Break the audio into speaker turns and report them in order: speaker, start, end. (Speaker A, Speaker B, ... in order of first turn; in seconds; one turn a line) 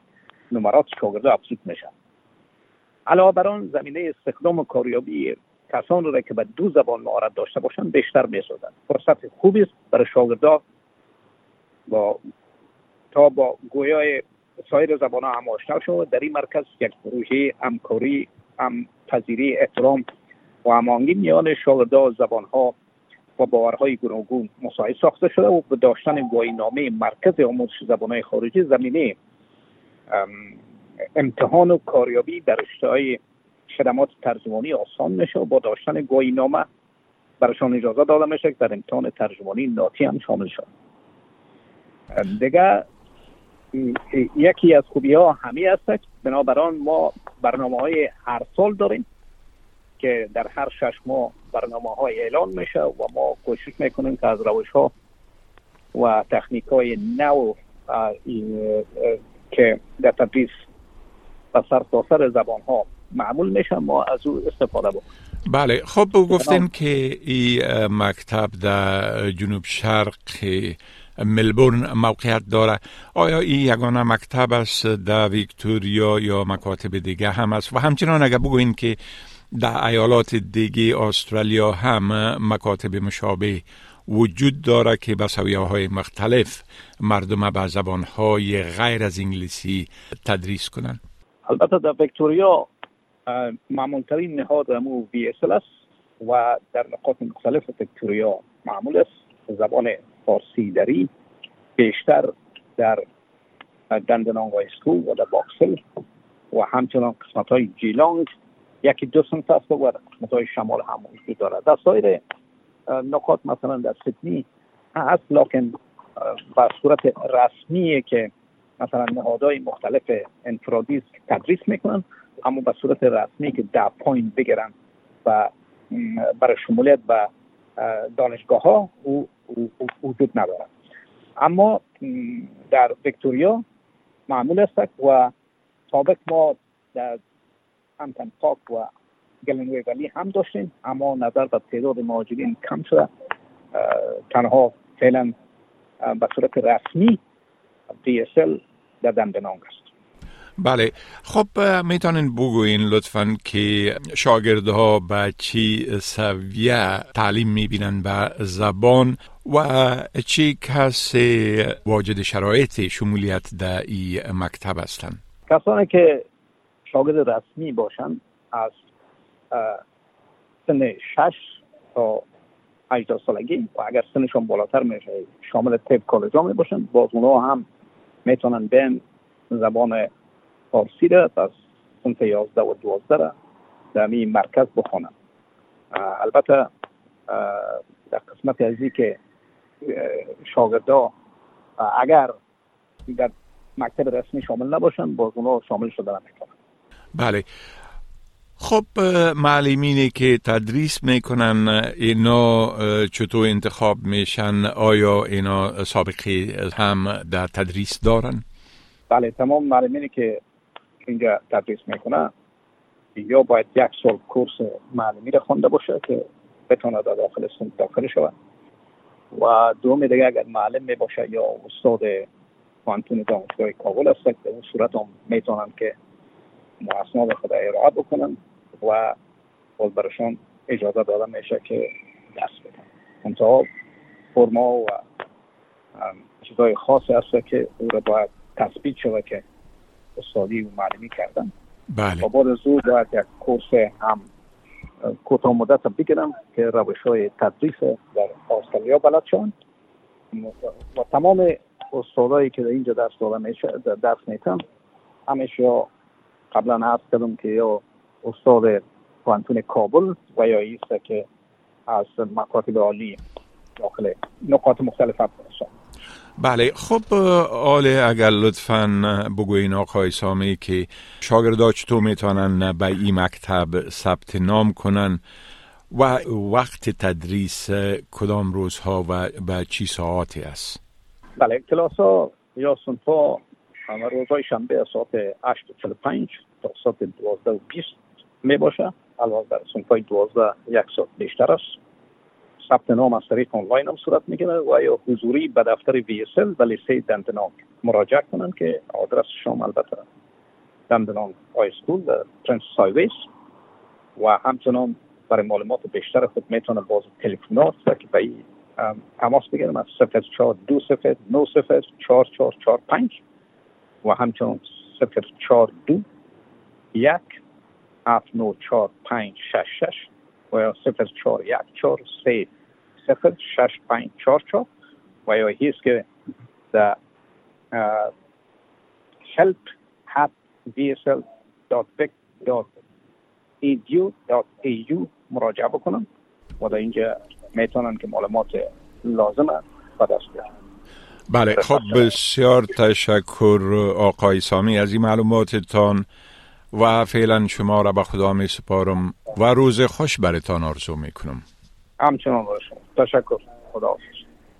Speaker A: 0.5-1.9
Speaker A: 3.1-10.6
Speaker A: 11.9-12.2
Speaker A: 13.1-20.0
Speaker A: 20.6-22.7
Speaker A: 23.4-29.1
Speaker A: 30.1-30.5
Speaker A: 31.1-36.7
Speaker A: 37.4-40.7
Speaker A: 42.1-42.8
Speaker A: 43.7-49.0
Speaker A: 50.0-54.9
Speaker A: 55.9-60.6
Speaker A: 61.5-65.0
Speaker B: 65.5-79.0
Speaker A: 66.3-66.6
Speaker B: 79.5-91.0
Speaker A: 91.5-92.7
Speaker A: 93.3-95.7
Speaker A: 96.2-101.1
Speaker A: 101.8-103.0
Speaker A: 103.9-105.8
Speaker A: 106.5-108.3
Speaker A: 108.8-112.2
Speaker A: 112.9-124.7
Speaker A: 125.2-130.7
Speaker A: 131.4-133.6
Speaker A: 134.3-135.3
Speaker A: 135.9-137.2
Speaker A: 138.0-138.9
Speaker A: 139.4-143.1
Speaker A: 143.7-145.3
Speaker A: 146.0-147.2
Speaker A: 148.0-149.9
Speaker B: 150.6-165.2
Speaker A: 165.5-166.2
Speaker A: 166.8-168.8
Speaker A: 169.5-169.8
Speaker A: 170.7-172.2
Speaker A: 172.9-177.6
Speaker A: 178.2-180.1
Speaker A: 180.7-183.3
Speaker A: 183.9-185.1
Speaker A: 185.9-186.7
Speaker A: 187.3-189.2
Speaker A: 189.8-191.1
Speaker A: 191.8-192.3
Speaker A: 193.1-196.5
Speaker B: 197.1-197.4
Speaker B: 198.6-208.4
Speaker A: 209.1-210.4
Speaker A: 211.0-212.3
Speaker A: 213.2-218.3
Speaker A: 219.3-222.3
Speaker A: 222.8-225.9
Speaker A: 226.8-229.2
Speaker A: 229.8-233.7
Speaker A: 234.3-235.0
Speaker A: 236.0-239.4
Speaker A: 240.2-241.5
Speaker B: 241.9-242.2
Speaker A: 242.2-244.3
Speaker A: 245.0-249.5
Speaker A: 250.3-254.6
Speaker A: 255.3-255.9
Speaker A: 256.5-261.3
Speaker A: 261.9-263.2
Speaker A: 263.8-265.7
Speaker B: 266.4-275.2
Speaker B: 275.9-280.8
Speaker A: 281.4-291.8
Speaker A: 292.6-300.0
Speaker A: 300.9-303.3
Speaker A: 304.2-313.2
Speaker A: 314.0-316.0
Speaker A: 316.9-317.3
Speaker A: 318.1-322.5
Speaker A: 323.0-324.7
Speaker A: 325.2-326.1
Speaker A: 326.7-327.0
Speaker A: 327.7-328.1
Speaker A: 329.3-332.8
Speaker A: 333.6-336.0
Speaker A: 336.6-340.5
Speaker B: 341.3-346.0
Speaker B: 346.7-351.4
Speaker A: 352.0-354.2